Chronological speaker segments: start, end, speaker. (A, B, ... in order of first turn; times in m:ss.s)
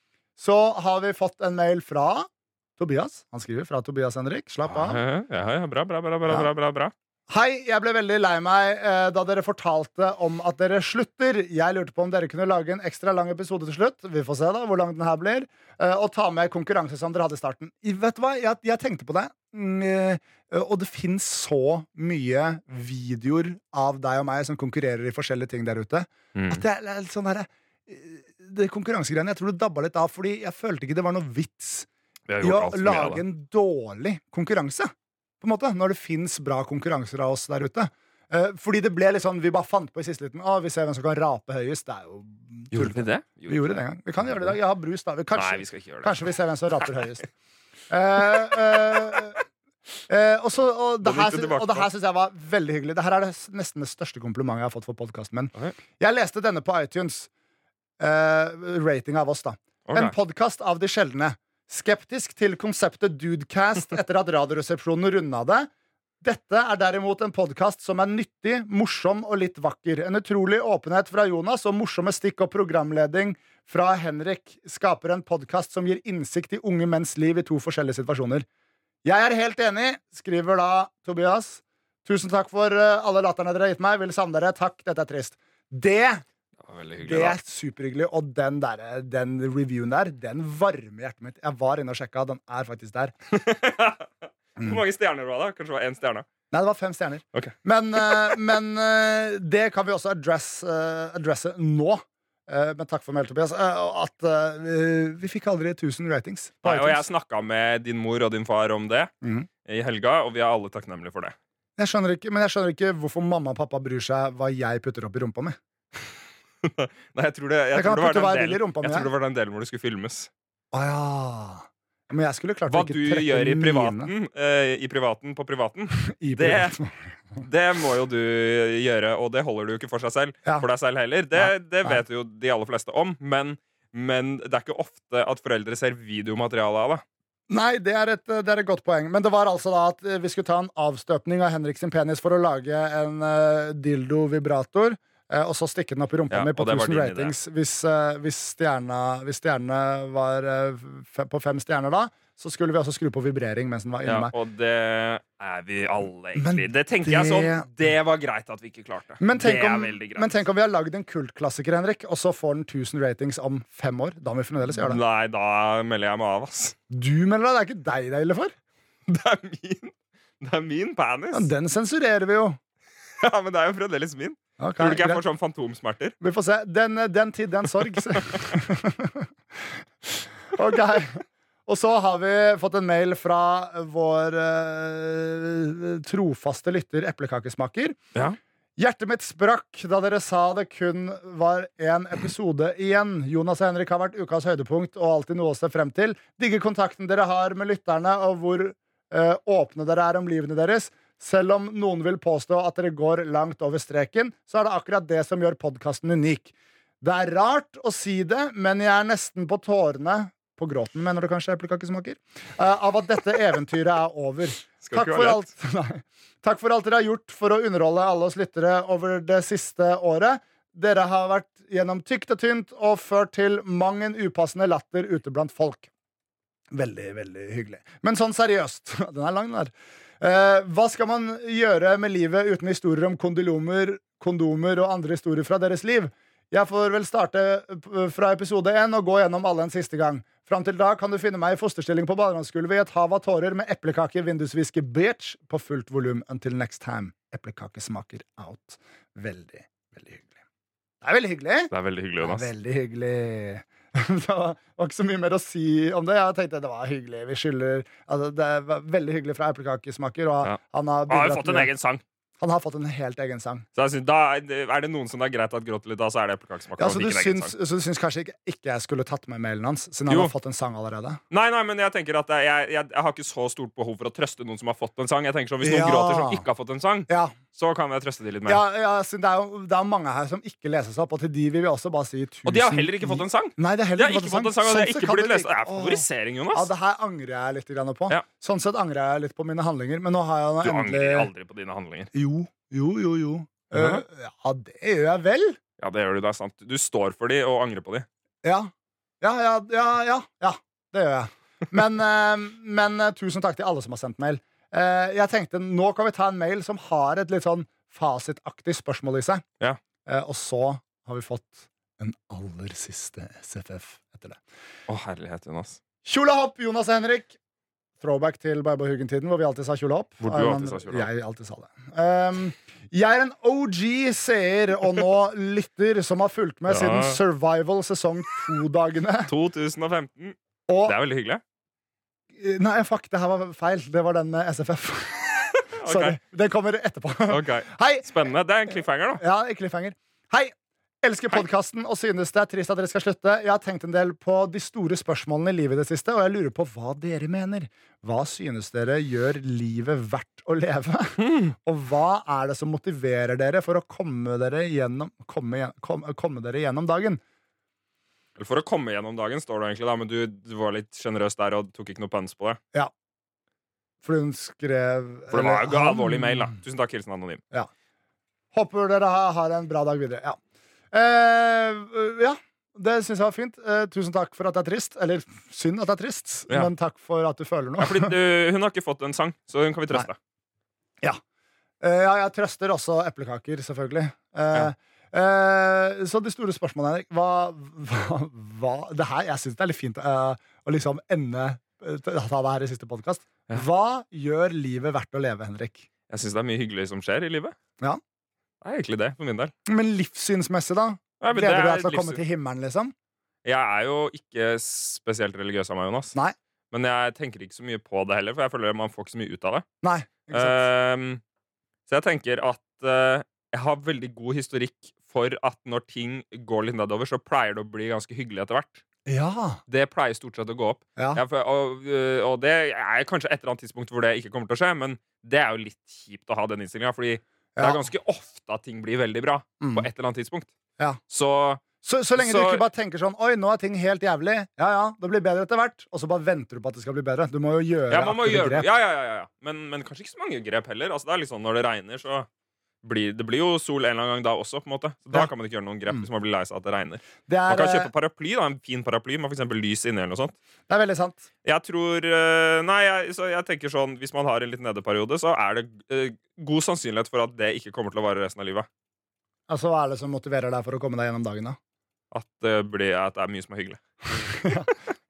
0:00.4-0:05.0 A
0:04.7-0:06.9 B
0:07.3-0:31.9 A
0:26.3-0:26.6 B
0:32.3-0:33.2 B
0:32.4-0:47.3 A
0:42.7-0:43.7 B
0:44.2-0:44.5 B
0:45.3-0:46.2 B
0:47.9-0:49.4 A
0:50.1-0:57.3 A
0:51.0-0:51.9 B
0:58.0-1:05.7 A
0:59.9-1:00.1 B
1:06.2-1:18.4 A
1:19.0-1:26.2 A
1:26.6-1:27.4 B
1:27.0-1:33.1 A
1:33.3-1:36.2 B
1:36.5-1:47.0 A
1:37.3-1:38.3 B
1:46.6-1:49.1 B
1:49.2-1:49.5 A
1:49.6-1:51.4 B
1:51.8-1:55.6 A
1:56.6-2:00.3 B
1:57.7-1:59.1 A
2:00.7-2:04.1 A
2:02.7-2:06.8 B
2:06.0-2:06.9 A
2:07.4-2:17.0 B
2:11.3-2:12.0 A
2:17.5-2:34.3 A
2:26.3-2:27.3 B
2:34.0-2:40.3 B
2:36.3-2:37.7 A
2:39.2-2:45.0 A
2:44.6-2:46.8 B
2:46.9-2:48.5 A
2:49.1-2:51.5 B
2:51.3-2:52.6 A
2:53.2-2:56.1 B
2:54.6-2:55.2 A
2:56.2-3:08.0 A
2:58.0-2:58.4 B
3:08.8-3:45.9 A
3:34.8-3:35.5 B
3:46.7-4:10.4 A
4:11.0-4:21.7 A
4:11.7-4:12.5 B
4:20.4-4:22.0 B
4:22.4-4:23.6 A
4:23.8-4:27.5 B
4:26.8-4:31.2 A
4:31.3-4:38.6 B
4:35.6-4:36.4 A
4:37.1-4:37.4 A
4:38.4-4:51.3 A
4:42.4-4:46.7 B
4:50.6-4:52.1 B
4:52.1-4:55.6 A
4:53.7-4:54.0 B
4:55.8-4:58.1 B
4:58.4-5:09.4 A
5:10.0-5:14.4 A
5:14.9-5:15.8 B
5:16.0-5:17.4 A
5:18.0-5:29.3 A
5:20.2-5:21.1 B
5:26.7-5:27.2 B
5:29.3-5:31.4 B
5:30.7-5:30.9 A
5:32.3-5:38.2 A
5:35.7-5:36.2 B
5:37.3-5:39.2 B
5:39.2-5:57.2 A
5:51.2-5:51.5 B
5:58.4-6:02.6 B
6:04.0-6:06.5 A
6:05.3-6:07.4 B
6:08.5-6:10.4 A
6:10.9-6:18.1 A
6:17.8-6:20.2 B
6:21.8-6:35.8 A
6:36.1-6:37.6 B
6:38.6-6:39.5 B
6:39.7-6:42.9 A
6:41.2-6:42.2 B
6:43.4-6:46.2 B
6:46.7-6:49.6 B
6:49.8-6:50.6 A
6:50.3-6:51.2 B
6:51.9-6:58.8 B
6:59.0-6:59.6 A
6:59.7-7:10.5 B
7:01.0-7:01.2 A
7:07.6-7:07.8 A
7:09.6-7:09.9 A
7:11.1-7:12.6 B
7:11.8-7:18.7 A
7:17.9-7:22.3 B
7:22.8-7:30.4 B
7:27.3-7:27.9 A
7:30.7-7:31.2 A
7:31.4-7:38.7 B
7:39.5-7:41.6 A
7:42.1-7:43.8 B
7:44.2-7:44.7 A